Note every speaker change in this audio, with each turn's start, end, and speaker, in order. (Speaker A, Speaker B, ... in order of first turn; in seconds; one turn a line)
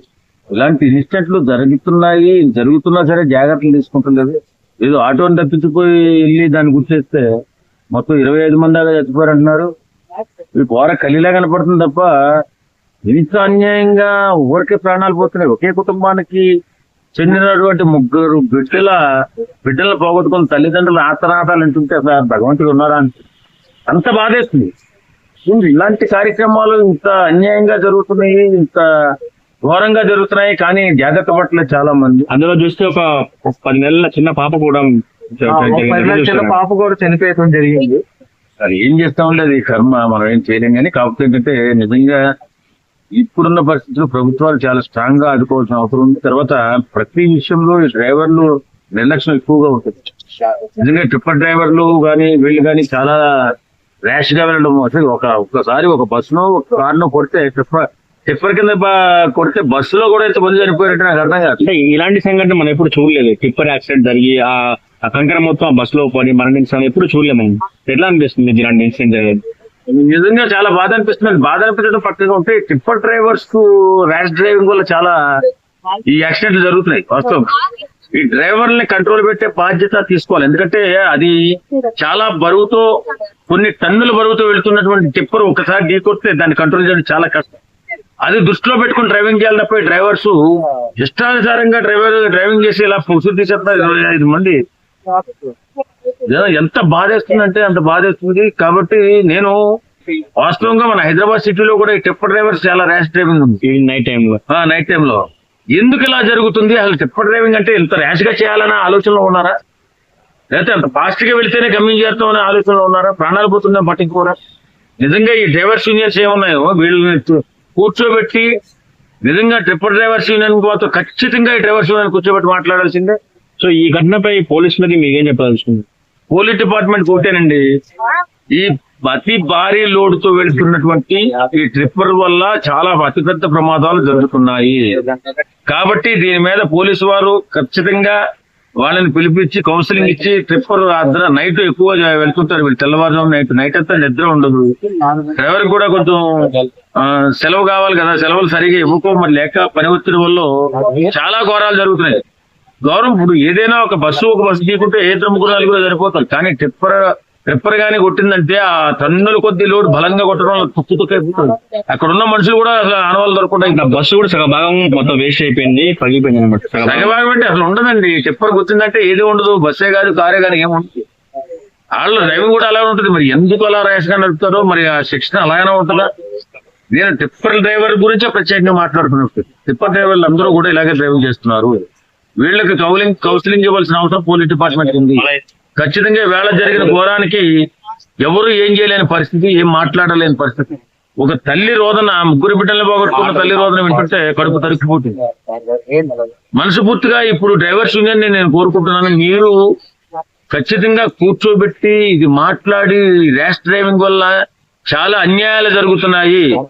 Speaker A: 0.6-7.2
Speaker A: 7.9-9.7
Speaker A: 10.5-12.1
Speaker A: 13.1-16.4
Speaker A: 17.2-19.0
Speaker A: 19.6-23.2
Speaker A: 23.9-24.7
Speaker A: 25.5-28.8
Speaker A: 29.7-32.3
Speaker B: 32.3-36.6
Speaker C: 35.5-38.0
Speaker A: 38.6-42.2
Speaker A: 43.2-50.0
Speaker A: 50.8-53.2
Speaker A: 54.1-61.6
Speaker B: 61.6-69.4
Speaker A: 69.9-75.1
Speaker A: 76.0-77.6
Speaker A: 78.1-81.4
Speaker A: 81.9-82.8
Speaker A: 83.5-87.6
Speaker A: 88.2-90.4
Speaker A: 91.0-94.6
Speaker A: 96.2-99.6
Speaker A: 100.4-103.6
Speaker B: 103.6-104.4
Speaker A: 104.5-105.2
Speaker A: 105.7-109.5
Speaker A: 110.5-114.3
Speaker A: 115.0-118.5
Speaker A: 119.2-123.2
Speaker B: 123.6-125.8
Speaker A: 126.3-127.6
Speaker A: 128.5-135.0
Speaker A: 135.7-138.2
Speaker A: 138.8-152.2
Speaker A: 152.8-163.9
Speaker B: 163.6-167.1
Speaker A: 166.8-171.0
Speaker A: 172.0-176.1
Speaker A: 176.9-181.8
Speaker A: 182.4-185.3
Speaker A: 185.8-187.5
Speaker A: 188.2-195.2
Speaker C: 195.4-196.3
Speaker A: 196.6-199.5
Speaker A: 200.5-204.3
Speaker A: 204.9-206.5